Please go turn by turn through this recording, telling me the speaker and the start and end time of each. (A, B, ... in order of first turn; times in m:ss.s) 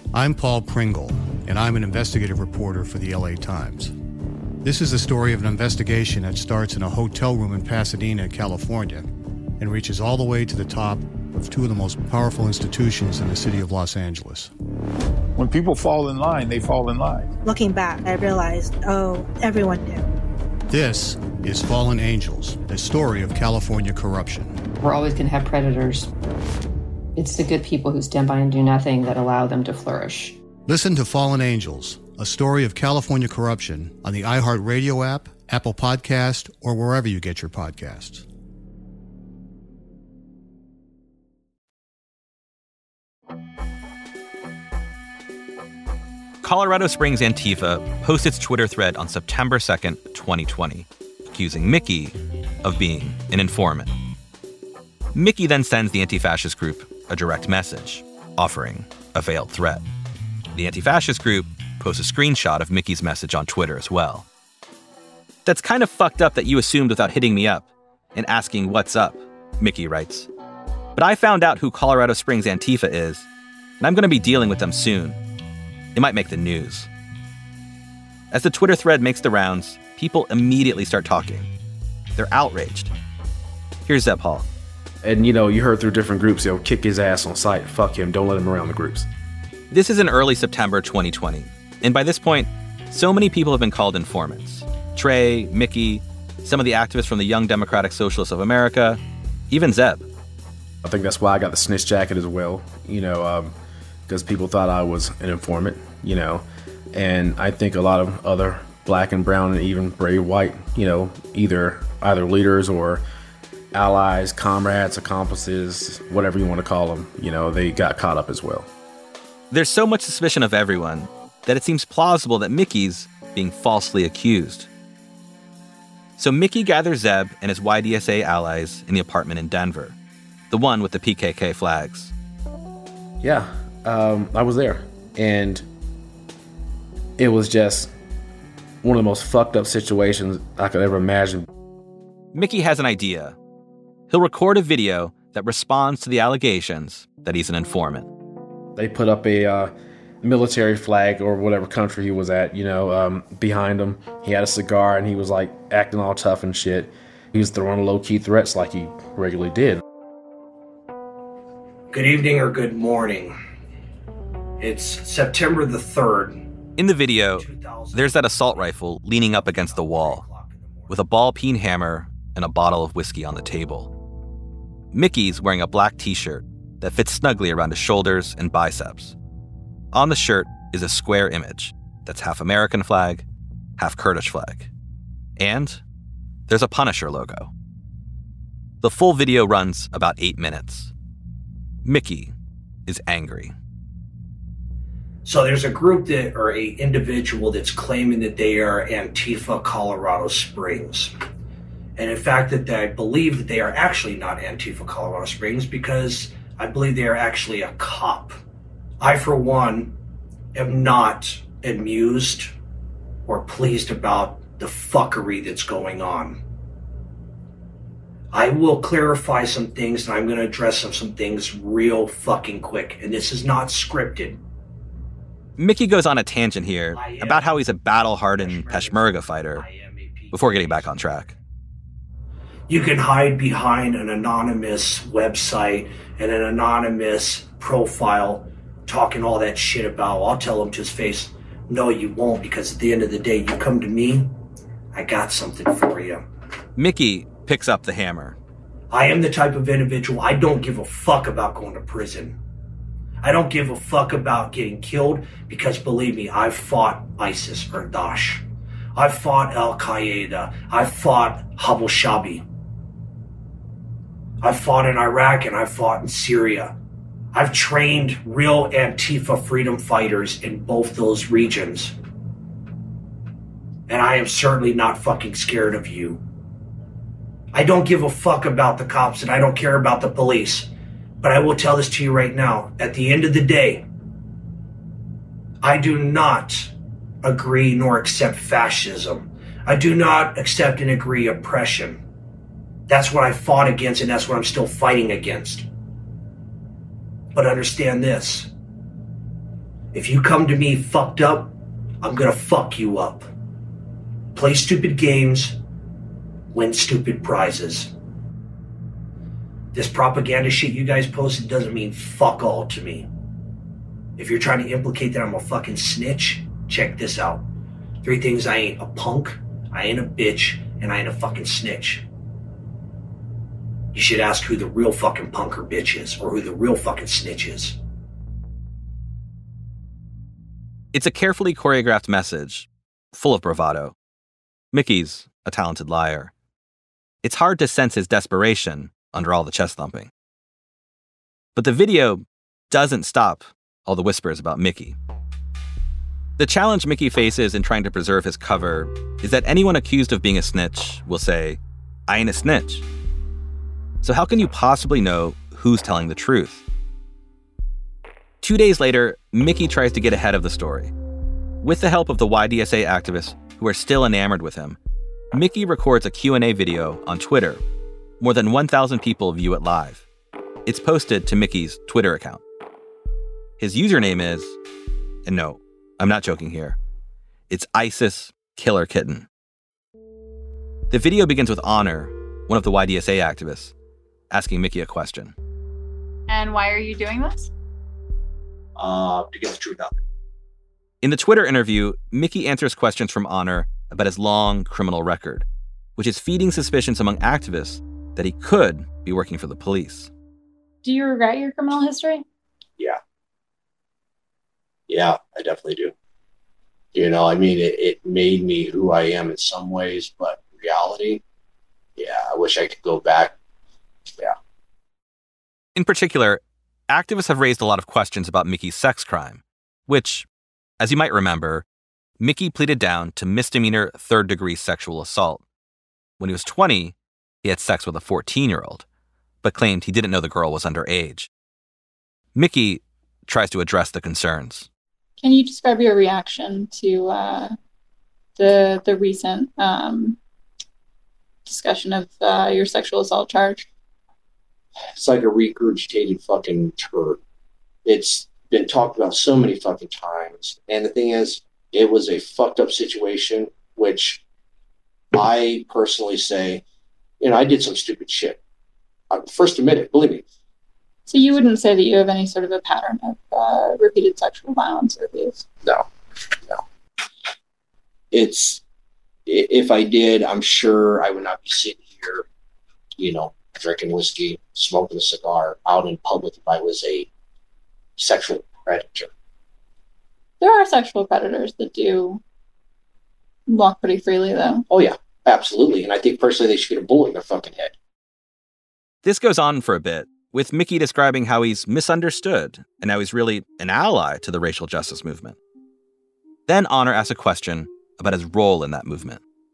0:00.1-0:03.9 A
0:04.6-0:09.0 A
0:09.6-0:14.5 A
0:15.4-0:17.3 B
0:17.4-0:20.0 C
0:20.7-0:24.6 A
0:24.8-0:26.1 D
0:27.2-0:30.4 D
0:30.6-0:38.2 A
0:46.4-0:53.9 E
0:55.1-0:59.8 E
1:00.5-1:04.2 E
1:05.4-1:10.3 E
1:11.0-1:13.3 E
1:13.8-1:15.2 E
1:15.9-1:16.9 E
1:18.3-1:21.5 E
1:22.1-1:22.9 E
1:23.8-1:24.5 E
1:25.0-1:29.1 F
1:29.7-1:40.0 E
1:40.8-1:43.5 F
1:44.1-1:53.0 F
1:53.7-1:58.7 F
1:59.5-2:04.7 E
2:06.2-2:10.0 E
2:10.5-2:12.1 E
2:13.2-2:15.6 F
2:17.2-2:17.9 F
2:18.8-2:21.4 F
2:22.3-2:23.4 E
2:24.1-2:28.1 E
2:28.7-2:39.8 F
2:41.9-2:43.4 G
2:44.6-2:46.4 G
2:46.8-2:50.2 E
2:47.4-2:48.1 G
2:49.3-2:51.0 G
2:50.9-2:53.9 E
2:54.9-2:59.2 E
2:59.9-3:03.2 E
3:03.8-3:04.7 E
3:05.4-3:05.8 E
3:06.5-3:07.5 E
3:08.8-3:10.9 E
3:11.8-3:12.3 E
3:12.9-3:13.5 E
3:15.2-3:21.1 G
3:22.0-3:28.4 G
3:29.0-3:29.9 G
3:30.5-3:32.5 G
3:33.2-3:36.4 G
3:38.3-3:44.4 G
3:45.6-3:49.6 E
3:46.9-3:47.4 G
3:48.3-3:50.9 G
3:50.3-3:51.3 E
3:52.7-4:04.3 G
4:04.9-4:06.2 G
4:06.8-4:08.4 E
4:08.9-4:12.4 G
4:13.2-4:18.4 G
4:19.0-4:22.4 G
4:24.4-4:26.7 G
4:27.3-4:31.9 G
4:33.9-4:36.2 G
4:37.5-4:40.7 G
4:41.2-4:43.8 G
4:45.6-4:46.7 G
4:47.2-4:52.0 G
4:52.9-4:55.6 G
4:57.3-4:58.5 G
4:59.9-5:03.3 G
5:04.3-5:05.6 G
5:06.5-5:07.9 G
5:09.7-5:13.0 G
5:14.2-5:17.4 G
5:18.0-5:22.0 G
5:23.9-5:27.8 G
5:30.9-5:33.9 E
5:34.7-5:36.3 E
5:37.2-5:40.1 E
5:41.5-5:45.0 E
5:46.4-5:52.8 E
5:54.0-5:56.6 E
5:58.4-6:00.9 E
6:01.6-6:04.8 E
6:05.3-6:07.6 E
6:08.2-6:10.0 E
6:10.6-6:12.4 E
6:13.6-6:14.6 E
6:15.2-6:16.8 E
6:17.5-6:19.2 E
6:20.9-6:23.7 E
6:24.3-6:25.3 E
6:26.3-6:27.5 H
6:28.8-6:30.0 G
6:31.0-6:35.4 E
6:36.0-6:40.1 E
6:40.8-6:42.2 H
6:44.9-6:45.9 G
6:46.9-6:51.2 G
6:52.0-6:53.3 G
6:55.8-7:00.2 E
7:00.8-7:01.6 E
7:02.2-7:05.4 E
7:06.2-7:08.8 E
7:09.4-7:11.3 E
7:12.3-7:14.7 E
7:15.2-7:17.6 H
7:18.4-7:20.2 H
7:21.4-7:23.6 H
7:25.0-7:27.2 G
7:27.8-7:34.2 G
7:35.1-7:36.6 G
7:37.2-7:38.4 G
7:39.1-7:40.2 G
7:41.1-7:45.4 H
7:48.1-7:48.6 G
7:49.3-7:52.2 G
7:53.0-7:57.1 G
7:58.0-7:59.1 G
8:00.4-8:02.2 H
8:03.5-8:04.6 H
8:04.7-8:07.7 G
8:09.0-8:15.4 E
8:16.5-8:19.2 E